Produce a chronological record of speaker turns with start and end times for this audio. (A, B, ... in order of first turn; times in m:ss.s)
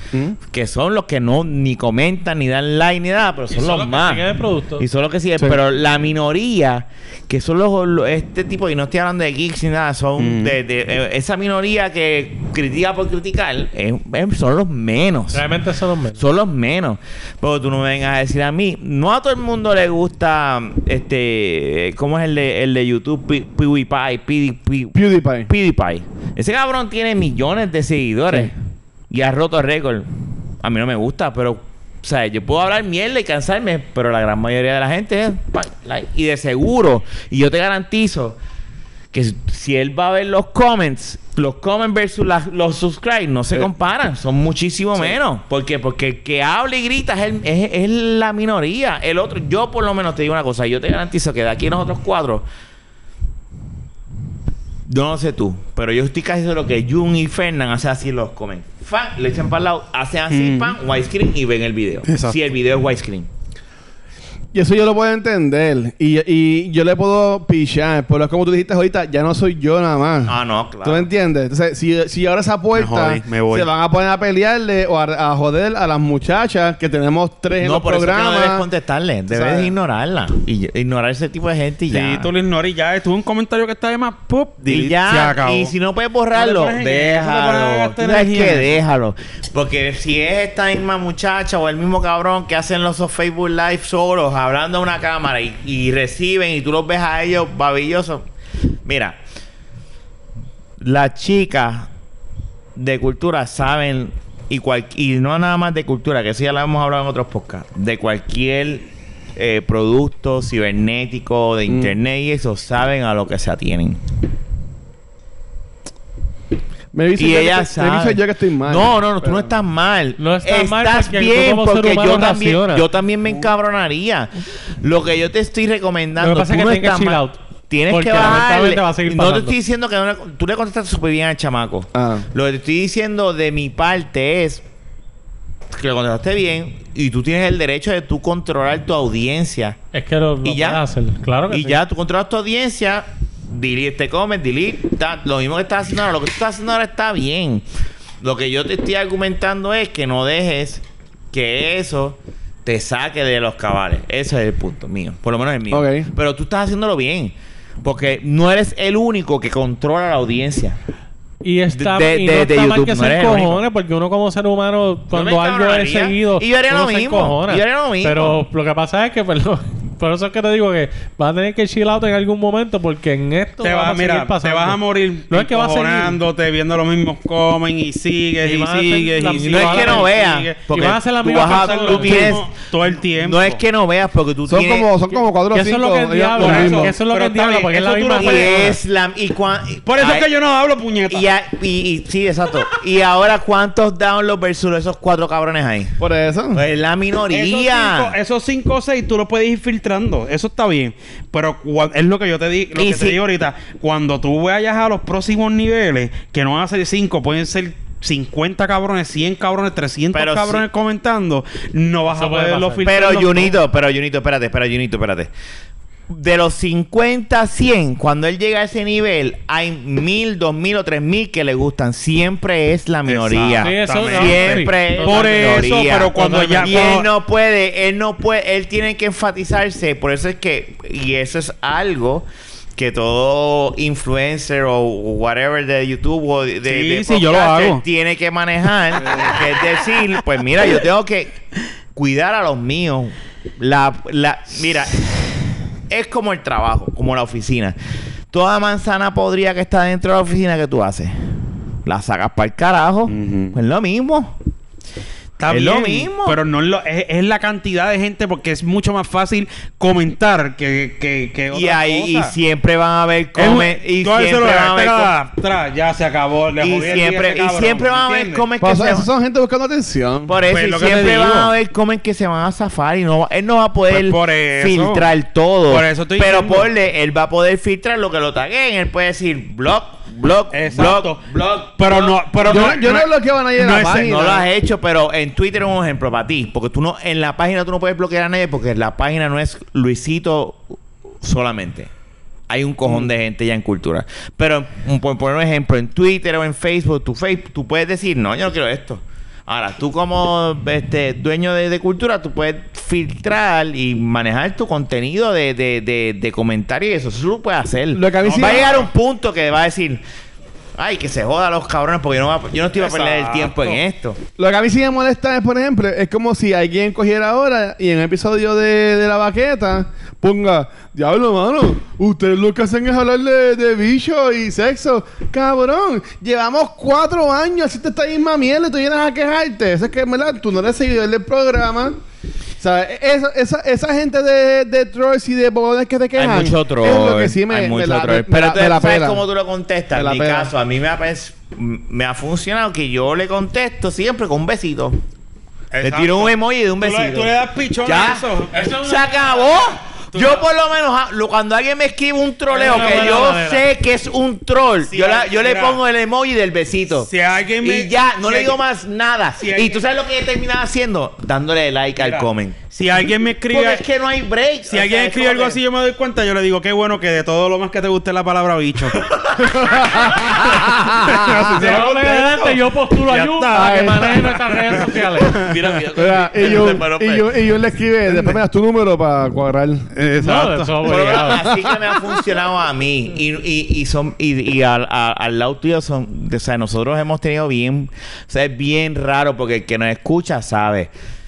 0:00.5-0:04.3 A
0:03.5-0:04.8 B
0:04.8-0:15.4 A
0:10.2-0:10.6 C
0:15.3-0:16.2 B
0:16.2-0:28.5 A
0:24.9-0:25.5 D
0:29.1-0:30.1 A
0:30.6-0:38.4 A
0:39.1-0:52.4 A
0:54.9-1:03.3 A
1:00.3-1:00.8 C
1:02.1-1:02.4 C
1:04.5-1:18.7 D
1:10.3-1:11.1 A
1:12.8-1:13.7 C
1:17.6-1:22.3 A
1:19.3-1:19.7 D
1:21.9-1:25.7 C
1:24.7-1:38.3 A
1:26.3-1:28.7 C
1:38.8-1:39.2 A
1:40.8-1:41.9 A
1:42.8-1:48.8 A
1:49.4-1:54.0 A
1:51.7-1:51.9 D
1:56.9-1:59.5 D
1:57.2-2:14.6 A
2:00.2-2:02.9 B
2:06.2-2:07.4 B
2:07.9-2:09.6 B
2:12.0-2:12.2 D
2:15.7-2:19.8 A
2:19.9-2:21.8 B
2:20.4-2:20.8 A
2:21.5-2:27.6 A
2:28.2-2:40.8 A
2:35.7-2:36.1 D
2:41.4-2:56.2 B
2:41.7-2:43.6 A
2:45.1-2:48.4 A
2:53.6-3:03.6 C
2:58.4-3:02.4 B
2:59.5-3:02.5 A
3:03.1-3:04.9 A
3:04.5-3:06.9 D
3:05.5-3:08.7 B
3:06.4-3:08.8 C
3:08.2-3:10.3 A
3:09.9-3:11.3 C
3:11.1-3:16.0 A
3:16.0-3:16.6 D
3:16.5-3:18.1 A
3:17.3-3:33.6 C
3:22.8-3:23.2 A
3:30.1-3:30.6 A
3:32.1-3:33.0 B
3:32.8-3:35.3 A
3:36.1-4:01.3 A
3:43.1-3:47.1 C
3:43.6-3:46.9 B
3:56.7-3:57.8 C
3:59.0-3:59.4 C
4:02.0-4:05.1 A
4:05.9-4:07.8 A
4:08.3-4:11.1 A
4:11.8-4:14.4 A
4:13.1-4:13.6 C
4:15.4-4:22.3 C
4:15.5-4:16.4 A
4:21.5-4:25.1 A
4:23.4-4:28.5 C
4:26.6-4:29.1 A
4:28.6-4:30.3 D
4:30.3-4:42.8 A
4:30.5-4:31.5 C
4:33.9-4:35.1 C
4:35.7-4:36.7 C
4:40.5-4:41.2 C
4:41.8-4:44.1 C
4:42.4-4:44.5 D
4:44.0-4:50.6 A
4:51.2-4:51.9 A
4:52.5-5:10.0 A
5:07.9-5:08.8 D
5:08.2-5:08.9 C
5:10.8-5:14.2 A
5:12.8-5:13.8 C
5:14.4-5:32.0 D
5:32.6-5:39.2 D
5:36.2-5:45.0 A
5:39.9-5:40.5 D
5:45.7-5:48.7 C
5:45.8-6:02.6 A
5:48.5-5:49.6 B
5:50.1-5:50.4 C
5:52.5-5:53.7 B
5:52.5-5:53.3 C
5:54.9-5:55.8 C
5:57.0-5:58.6 C
5:59.4-5:59.8 C
6:02.0-6:03.8 C
6:03.5-6:05.6 A
6:04.7-6:09.0 C
6:09.0-6:09.6 A
6:09.4-6:11.6 D
6:09.7-6:15.8 C
6:11.5-6:15.4 B
6:13.5-6:14.2 D
6:15.2-6:17.4 A
6:15.9-6:19.9 D
6:19.9-6:21.1 C
6:20.2-6:21.4 B
6:20.8-6:30.9 A
6:21.4-6:22.2 D